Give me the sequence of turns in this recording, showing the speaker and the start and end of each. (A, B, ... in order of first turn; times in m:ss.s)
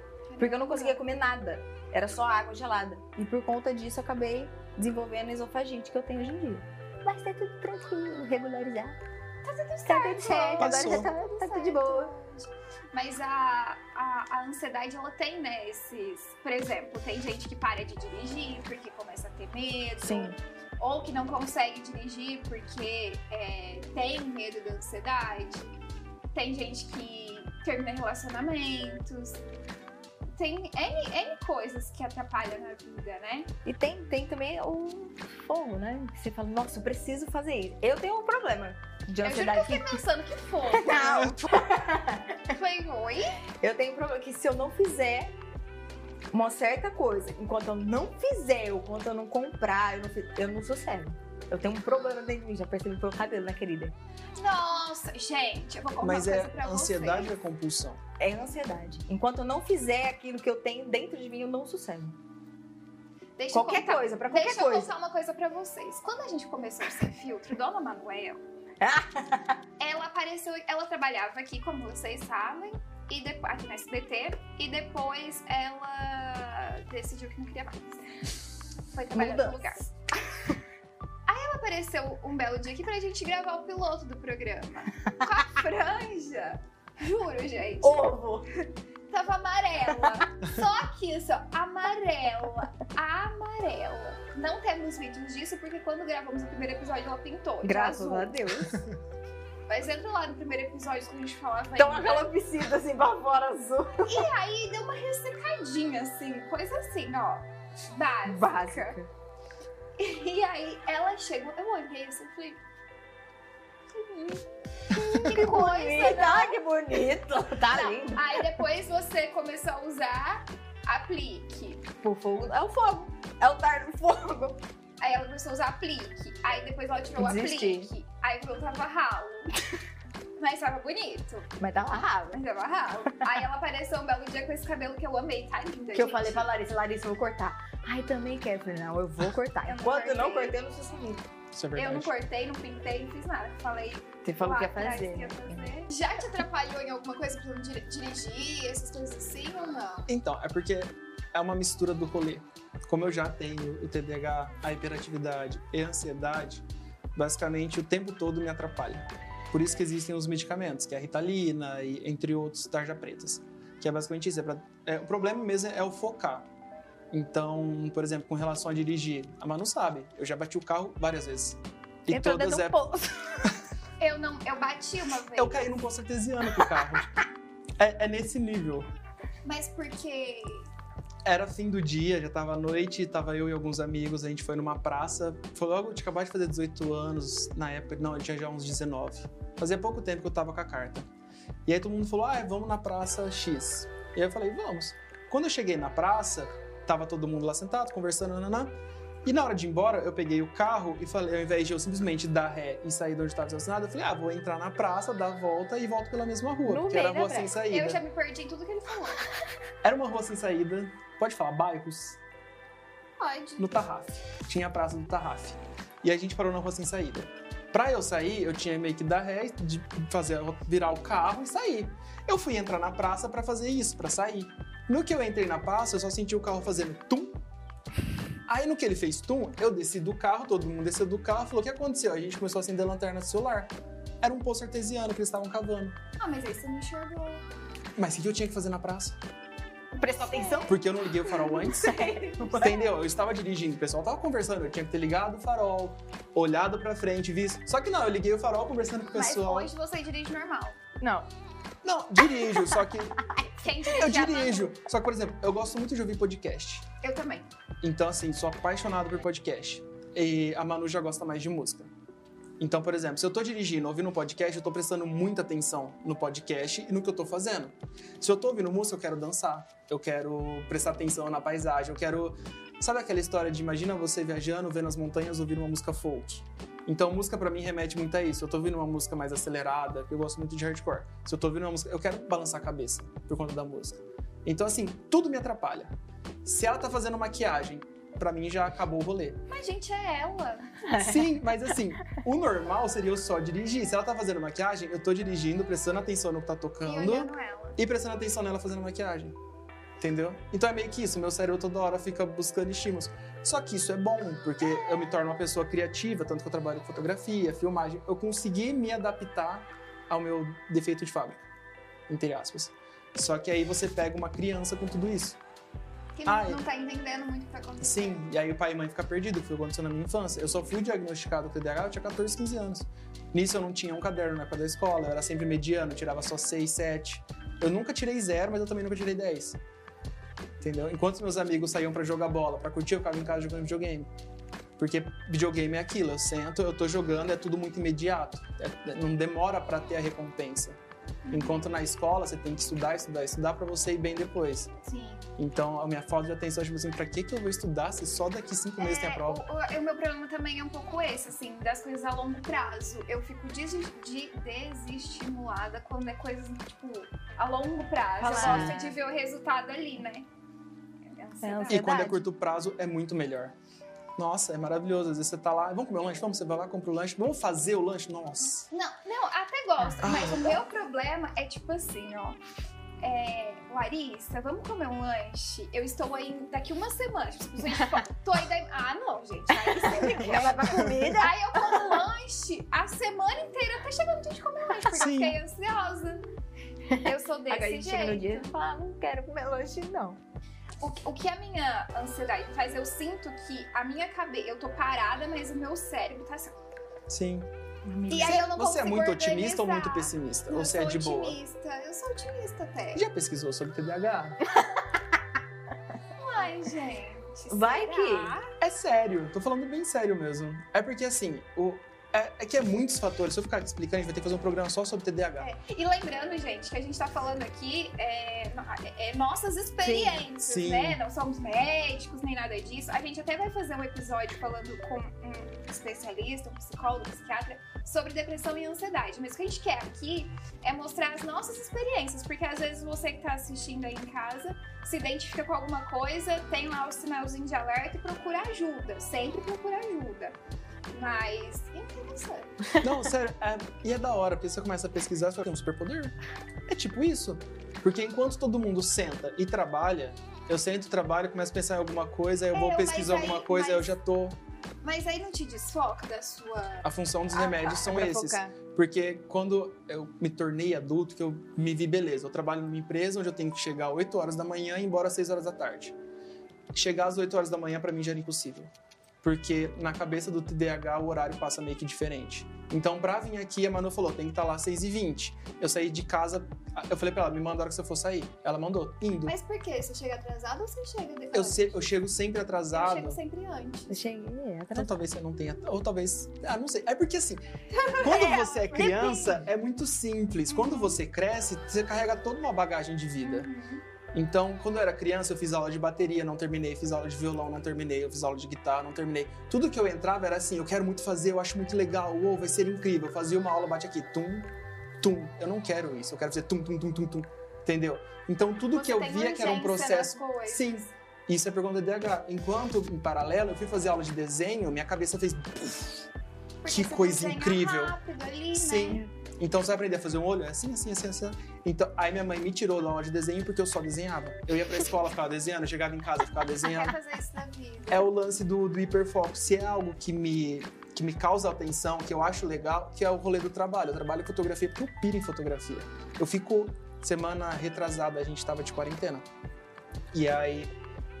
0:00.3-0:01.0 A
0:00.4-0:09.0 B
0:09.4-0:25.7 A
0:09.8-0:12.1 B
0:10.6-0:11.1 C
0:20.0-0:20.4 B
0:26.3-0:29.4 A
0:30.3-0:33.5 A
0:33.6-0:40.0 B
0:39.2-0:41.3 A
0:40.7-0:42.5 B
0:41.0-0:41.3 C
0:42.5-0:43.4 A
0:43.6-0:45.4 B
0:46.3-0:54.0 B
0:54.4-0:57.3 A
0:56.0-0:58.0 C
0:58.2-1:02.2 B
1:03.4-1:08.4 A
1:03.5-1:04.9 B
1:08.8-1:09.6 B
1:09.8-1:18.1 A
1:18.9-1:19.8 A
1:19.1-1:19.9 B
1:21.3-1:28.1 A
1:27.8-1:28.5 B
1:29.1-1:38.4 A
1:37.6-1:38.8 B
1:39.7-1:42.3 A
1:41.8-1:44.3 B
1:44.0-1:49.0 A
1:48.2-1:49.1 B
1:50.0-1:52.6 A
1:53.9-1:54.4 A
1:54.9-1:58.5 B
1:55.0-1:56.6 A
1:57.7-2:01.9 A
2:02.0-2:04.6 B
2:05.0-2:09.6 A
2:07.2-2:07.9 B
2:10.4-2:11.5 A
2:11.6-2:12.4 B
2:12.3-2:16.4 A
2:15.9-2:21.2 B
2:19.6-2:20.6 A
2:21.5-2:22.1 C
2:21.8-2:30.1 A
2:24.2-2:25.7 B
2:30.1-2:36.6 C
2:37.2-2:46.5 C
2:47.1-2:52.8 C
2:52.1-2:53.5 B
2:54.0-2:55.8 A
2:55.4-2:57.1 C
2:57.8-2:58.9 C
2:59.4-3:00.7 A
3:01.2-3:11.1 C
3:11.6-3:28.0 C
3:26.7-3:27.5 B
3:27.5-3:29.3 A
3:29.8-3:32.2 C
3:33.2-3:33.7 A
3:33.6-3:47.4 C
3:48.5-3:56.0 C
3:56.2-3:57.4 A
3:58.0-3:59.2 C
4:00.0-4:02.8 B
4:00.0-4:00.8 A
4:00.7-4:09.7 C
4:09.1-4:10.8 A
4:11.0-4:11.3 B
4:11.8-4:13.2 C
4:12.3-4:13.9 B
4:13.6-4:14.7 A
4:14.0-4:16.8 C
4:17.0-4:17.5 A
4:17.8-4:21.9 C
4:22.6-4:45.9 C
4:46.4-4:49.4 C
4:49.5-4:50.9 A
4:50.8-4:51.2 B
4:51.0-4:59.4 C
4:56.8-4:57.8 A
5:00.0-5:11.4 C
5:12.1-5:15.4 C
5:16.2-5:18.2 A
5:16.2-5:16.6 C
5:17.8-5:29.6 C
5:30.6-5:34.1 C
5:34.8-5:40.8 C
5:41.2-5:41.7 A
5:41.3-5:44.7 C
5:44.8-5:45.3 A
5:45.4-5:49.4 C
5:48.8-6:00.3 A
5:58.2-5:59.0 B
5:58.4-5:58.8 C
6:01.1-6:01.9 A
6:01.4-6:02.2 B
6:01.7-6:03.6 C
6:04.2-6:08.7 C
6:08.7-6:12.4 A
6:10.0-6:10.6 C
6:13.0-6:26.2 A
6:19.5-6:22.0 B
6:20.8-6:21.0 C
6:25.0-6:25.4 C
6:26.9-6:30.2 B
6:27.0-6:28.5 A
6:30.8-6:36.5 A
6:37.1-6:37.5 C
6:37.8-6:38.4 B
6:38.1-6:41.4 C
6:38.1-6:43.0 A
6:42.9-6:44.4 C
6:44.5-6:45.0 B
6:46.2-6:48.5 A
6:47.5-6:48.4 B
6:48.6-6:55.5 C
6:55.4-7:20.4 A
6:59.8-7:00.3 B
7:00.4-7:01.0 C
7:20.9-7:22.7 A
7:22.8-7:26.1 C
7:26.7-7:34.4 C
7:32.5-7:34.0 A
7:34.8-7:38.4 A
7:36.8-7:46.0 C
7:37.9-7:38.5 B
7:46.7-7:48.7 C
7:49.2-7:59.4 C
7:59.2-8:01.8 A
8:01.3-8:03.2 C
8:02.7-8:04.0 A
8:03.9-8:05.0 B
8:04.7-8:07.4 C
8:07.7-8:09.3 A
8:08.0-8:13.5 C
8:08.1-8:09.3 B
8:10.5-8:11.0 A
8:13.2-8:13.8 A
8:14.1-8:36.1 C
8:28.7-8:30.8 A
8:36.6-8:39.0 A
8:36.7-8:38.0 C
8:38.5-8:47.0 C
8:46.6-8:48.1 A
8:47.9-8:59.3 C
9:00.1-9:00.7 C